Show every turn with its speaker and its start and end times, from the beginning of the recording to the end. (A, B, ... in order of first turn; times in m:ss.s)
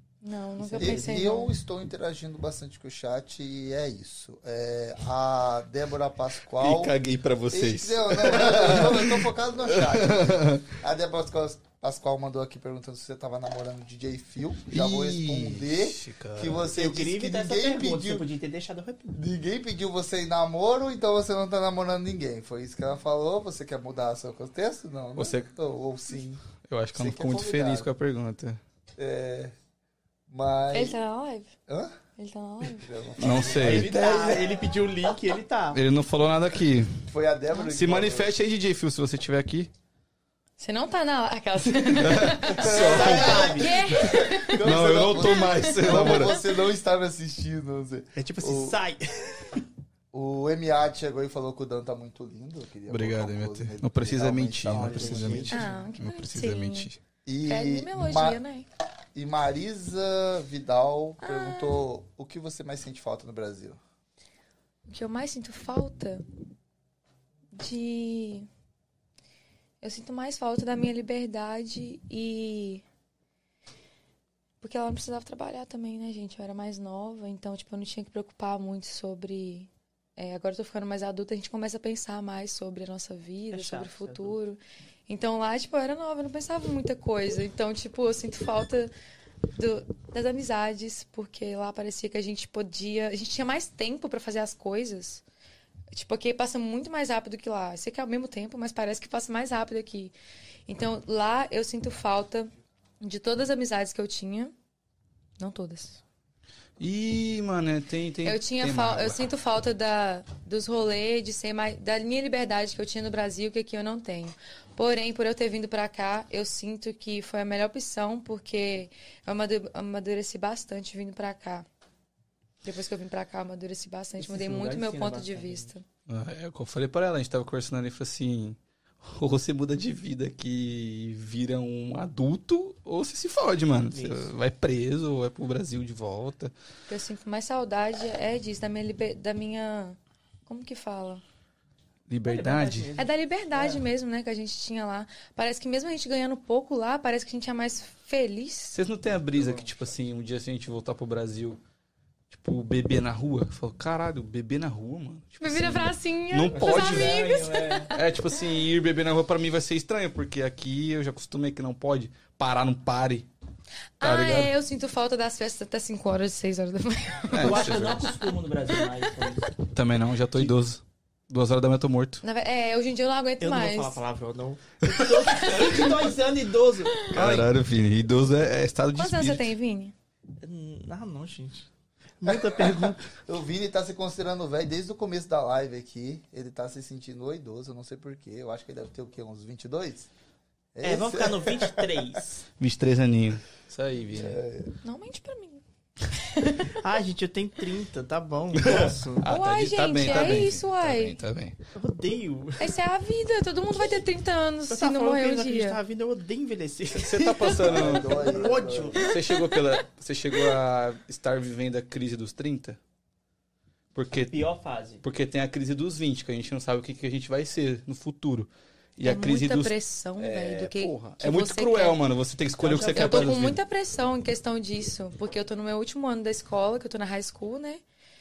0:00.2-0:01.5 A
0:00.6-0:01.3 B
0:00.8-0:07.0 C
0:06.6-0:10.7 D
0:07.5-0:18.3 C
0:14.7-0:16.7 D
0:16.6-0:19.2 B
0:19.1-0:27.9 C
0:25.2-0:25.5 D
0:26.6-0:28.6 D
0:29.0-0:29.5 C
0:30.3-0:31.0 C
0:30.7-0:31.5 A
0:31.7-0:32.0 C
0:32.2-0:32.9 A
0:32.8-0:34.6 C
0:33.2-0:34.0 D
0:33.3-0:35.8 B
0:35.7-0:37.0 D
0:37.1-0:38.3 C
0:37.6-0:39.7 D
0:40.6-0:46.4 A
0:41.9-0:46.4 D
0:42.5-0:48.8 C
0:42.6-0:43.9 B
0:48.2-0:49.6 B
0:50.1-0:55.6 C
0:52.9-0:57.0 D
0:54.7-0:55.9 B
0:55.5-0:56.9 A
0:57.2-0:58.4 C
0:57.4-0:58.7 A
0:59.2-1:03.8 C
1:01.2-1:01.8 A
1:04.9-1:06.2 A
1:07.5-1:08.5 A
1:09.8-1:12.8 A
1:14.6-1:28.9 A
1:23.5-1:24.4 B
1:29.6-1:35.2 A
1:35.9-1:40.1 A
1:40.7-1:44.5 A
1:45.4-1:46.0 A
1:46.8-1:49.2 D
1:48.2-2:01.7 A
2:02.6-2:05.8 A
2:04.2-2:05.7 B
2:06.1-2:16.5 D
2:13.9-2:14.3 B
2:16.9-2:21.2 A
2:22.1-2:22.9 D
2:22.2-2:23.8 B
2:23.0-2:28.8 A
2:28.7-2:31.6 D
2:29.4-2:29.7 B
2:32.3-2:43.3 D
2:35.4-2:38.1 A
2:36.5-2:37.9 B
2:44.0-2:49.0 A
2:44.0-2:44.5 D
2:47.3-2:48.1 D
2:47.3-2:49.6 B
2:49.6-2:52.2 D
2:52.2-2:54.0 A
2:53.4-2:57.5 B
2:54.8-2:55.6 D
2:55.2-2:56.1 A
2:57.1-2:59.5 D
2:59.0-2:59.9 A
3:00.4-3:01.7 B
3:02.2-3:03.1 B
3:02.3-3:10.1 C
3:10.7-3:12.0 C
3:10.8-3:12.4 B
3:12.6-3:14.4 D
3:14.1-3:14.7 C
3:14.8-3:16.8 A
3:16.7-3:19.3 B
3:18.6-3:21.6 D
3:19.2-3:21.2 A
3:20.0-3:20.5 B
3:21.7-3:22.8 B
3:22.6-3:25.8 A
3:24.7-3:29.2 B
3:26.9-3:32.8 D
3:27.6-3:29.1 C
3:29.0-3:29.8 A
3:33.9-3:34.3 D
3:34.1-3:35.0 B
3:35.0-3:43.6 D
3:39.0-3:42.0 A
3:42.6-3:43.5 B
3:42.9-3:47.8 A